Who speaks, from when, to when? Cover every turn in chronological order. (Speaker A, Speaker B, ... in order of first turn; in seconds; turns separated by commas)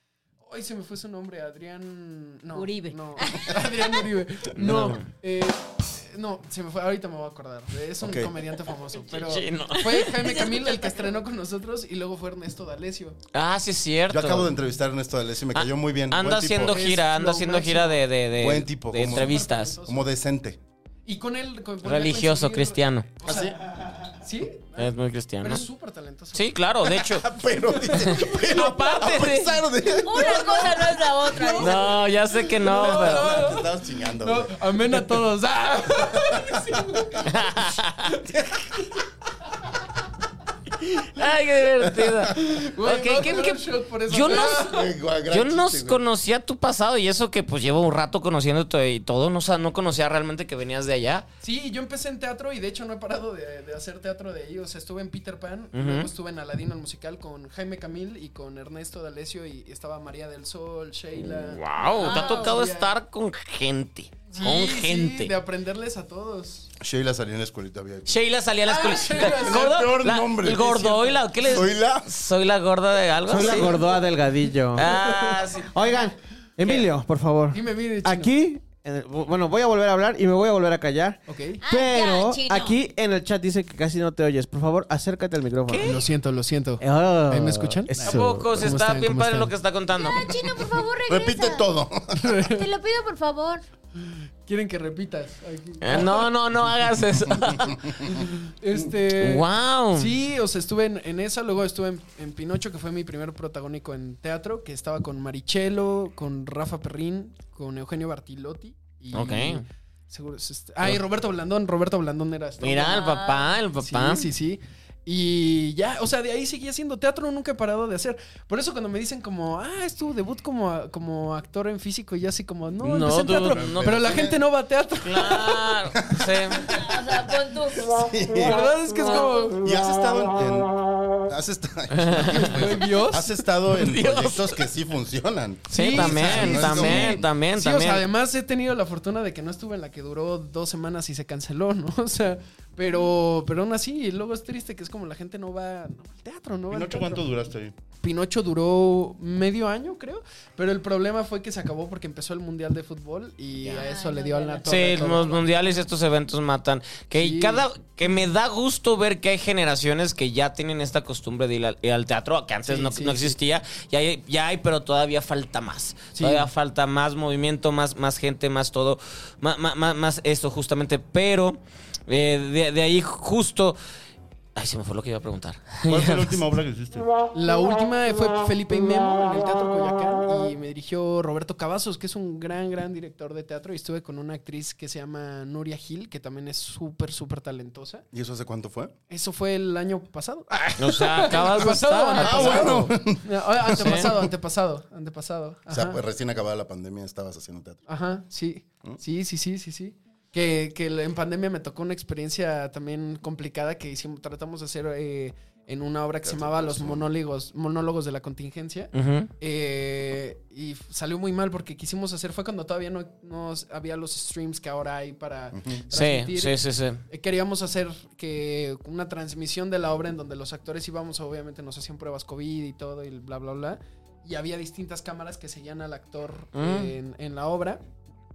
Speaker A: 0.4-13.2, Speaker B: 2.5-3.6, Speaker C: 4.6-5.0, Speaker D: 8.0-8.3, Speaker C: 9.1-10.4, Speaker B: 10.2-11.1, Speaker C: 13.3-14.5, Speaker D: 14.1-16.8, Speaker C: 15.5-19.7, Speaker A: 16.6-18.0, Speaker D: 18.4-20.6, Speaker A: 19.0-20.1, Speaker A: 21.0-23.6, Speaker C: 21.8-23.1, Speaker D: 23.2-23.6, Speaker A: 24.2-26.5, Speaker C: 24.8-25.7, Speaker C: 26.3-27.2, Speaker D: 27.0-30.5, Speaker A: 27.9-28.6, Speaker C: 28.0-29.6, Speaker B: 30.0-32.1, Speaker A: 30.0-37.4, Speaker C: 31.6-33.6, Speaker D: 32.8-34.9, Speaker D: 36.0-37.3, Speaker C: 37.2-38.3, Speaker C: 40.8-44.8, Speaker A: 42.3-44.9, Speaker D: 44.4-46.0, Speaker C: 45.3-51.2, Speaker A: 51.4-62.9, Speaker C: 55.7-56.1, Speaker C: 61.2-65.3, Speaker B: 62.0-62.6, Speaker A: 64.3-66.7, Speaker D: 66.8-68.1, Speaker C: 68.1-73.8, Speaker A: 68.6-69.9, Speaker D: 69.2-72.1, Speaker E: 73.3-75.0, Speaker A: 73.5-73.8, Speaker C: 74.7-75.7, Speaker A: 74.8-75.6, Speaker E: 75.7-86.0, Speaker A: 77.5-78.3, Speaker A: 81.3-81.6, Speaker B: 81.6-82.8, Speaker C: 85.7-86.0, Speaker A: 85.8-89.5, Speaker E: 86.8-88.8, Speaker C: 88.0-90.4, Speaker B: 89.9-91.7, Speaker D: 91.1-92.4, Speaker A: 92.2-92.7, Speaker B: 92.5-93.6, Speaker A: 94.0-96.3, Speaker C: 95.8-97.9, Speaker D: 97.3-97.8, Speaker A: 98.0-113.1, Speaker C: 99.1-100.1, Speaker C: 109.1-109.6, Speaker C: 112.6-114.3, Speaker B: 112.8-113.5, Speaker A: 113.8-125.8, Speaker C: 122.8-124.3, Speaker D: 123.3-124.4, Speaker C: 125.0-126.7, Speaker D: 126.0-127.0, Speaker B: 126.7-127.9, Speaker D: 127.8-128.6, Speaker A: 128.4-129.6, Speaker B: 129.0-129.5, Speaker D: 129.6-137.3, Speaker C: 131.9-132.7, Speaker A: 132.2-133.4, Speaker C: 133.7-134.6, Speaker C: 135.7-138.0, Speaker A: 135.7-147.2, Speaker D: 146.7-147.7, Speaker A: 148.0-155.3, Speaker B: 153.6-155.8, Speaker C: 154.7-173.8, Speaker A: 157.2-158.2, Speaker A: 162.7-163.3, Speaker A: 166.2-166.5, Speaker C: 174.6-176.4, Speaker D: 175.9-177.1, Speaker A: 177.3-188.0, Speaker D: 188.1-188.9, Speaker A: 189.1-196.0, Speaker C: 190.8-192.9, Speaker D: 192.2-194.3, Speaker C: 193.8-194.1, Speaker D: 195.7-197.8, Speaker A: 197.9-227.8, Speaker D: 206.2-207.1, Speaker C: 208.9-209.3, Speaker D: 215.5-215.8, Speaker C: 215.9-217.0, Speaker C: 226.5-226.9